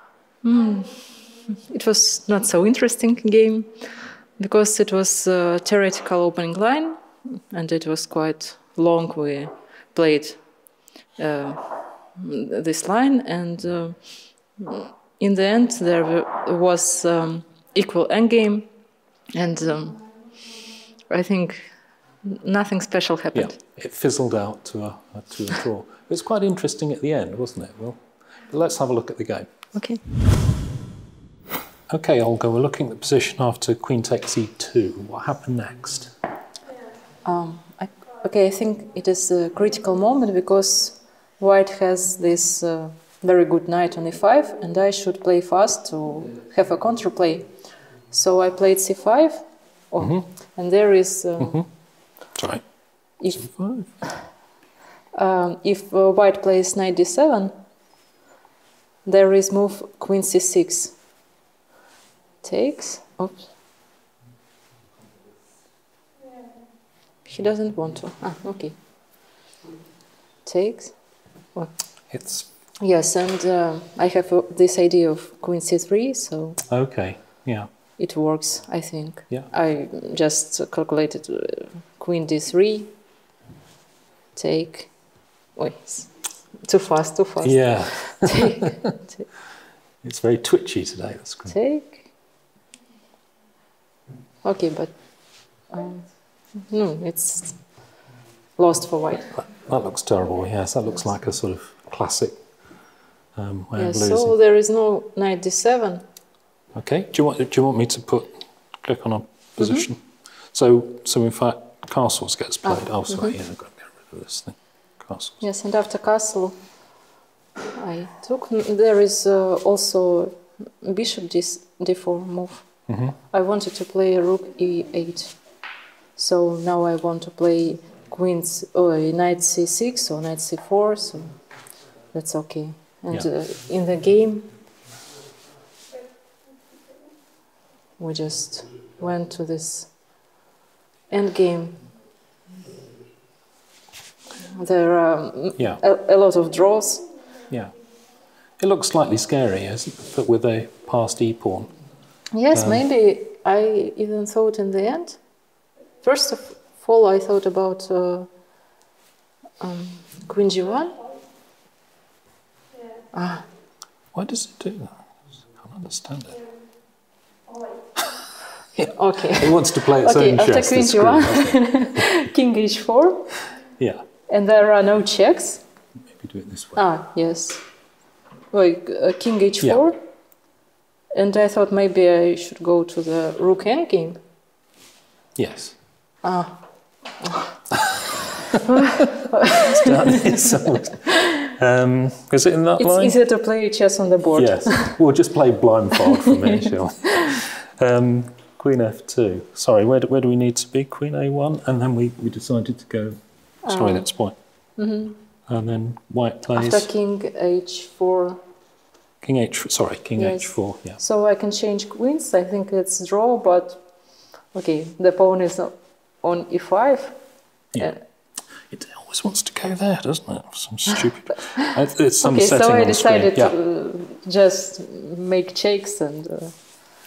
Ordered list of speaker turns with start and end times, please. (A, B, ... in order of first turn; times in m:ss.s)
0:00.4-0:18.7 A
0:19.3-0:20.4 A
0:21.1-0:23.6 A
0:23.3-0:29.5 B
0:29.7-0:30.0 A
0:31.9-0:36.1 B
0:37.2-0:47.5 A
0:48.1-0:51.6 A
0:50.0-0:50.2 B
0:51.4-0:51.7 B
0:52.3-0:52.6 B
0:53.2-0:53.5 A
0:53.3-0:53.9 B
0:55.1-0:57.5 A
0:59.0-1:01.0 A
1:02.4-1:03.5 A
1:07.2-1:08.8 A
1:10.4-1:11.7 A
1:12.1-1:12.5 B
1:12.8-1:16.6 A
1:16.7-1:17.7 B
1:18.0-1:23.0 A
1:24.3-1:29.3 A
1:27.4-1:28.9 B
1:30.0-1:31.6 B
1:31.5-1:32.1 A
1:34.4-1:35.0 A
1:35.5-1:38.0 A
1:38.6-1:39.3 A
1:39.3-1:42.3 B
1:43.4-1:44.3 B
1:43.8-1:46.0 A
1:46.7-1:55.4 B
1:52.6-1:53.3 A
1:55.4-1:56.6 A
1:57.7-2:05.5 A
2:02.9-2:03.2 B
2:06.1-2:11.4 A
2:12.1-2:14.5 A
2:18.0-2:20.2 A
2:21.1-2:21.8 A
2:24.5-2:27.1 A
2:28.6-2:31.7 B
2:32.3-2:38.3 A
2:32.5-2:32.8 B
2:39.6-2:41.0 A
2:43.1-2:43.4 A
2:44.1-2:45.0 B
2:45.5-2:46.4 B
2:48.7-2:51.6 B
2:48.9-2:53.4 A
2:54.3-2:55.6 A
2:56.1-2:56.8 B
2:56.8-2:57.6 A
2:58.5-3:00.0 A
3:01.1-3:04.2 A
3:05.4-3:05.8 B
3:06.2-3:07.6 A
3:08.7-3:10.5 A
3:09.7-3:13.2 B
3:12.8-3:15.0 A
3:14.4-3:24.3 B
3:16.1-3:16.7 A
3:23.6-3:24.1 A
3:24.8-3:25.2 A
3:25.5-3:26.9 B
3:26.5-3:28.4 A
3:29.2-3:31.0 B
3:30.2-3:33.9 A
3:34.5-3:38.0 A
3:38.7-3:43.5 B
3:41.4-3:41.7 A
3:42.2-3:46.5 A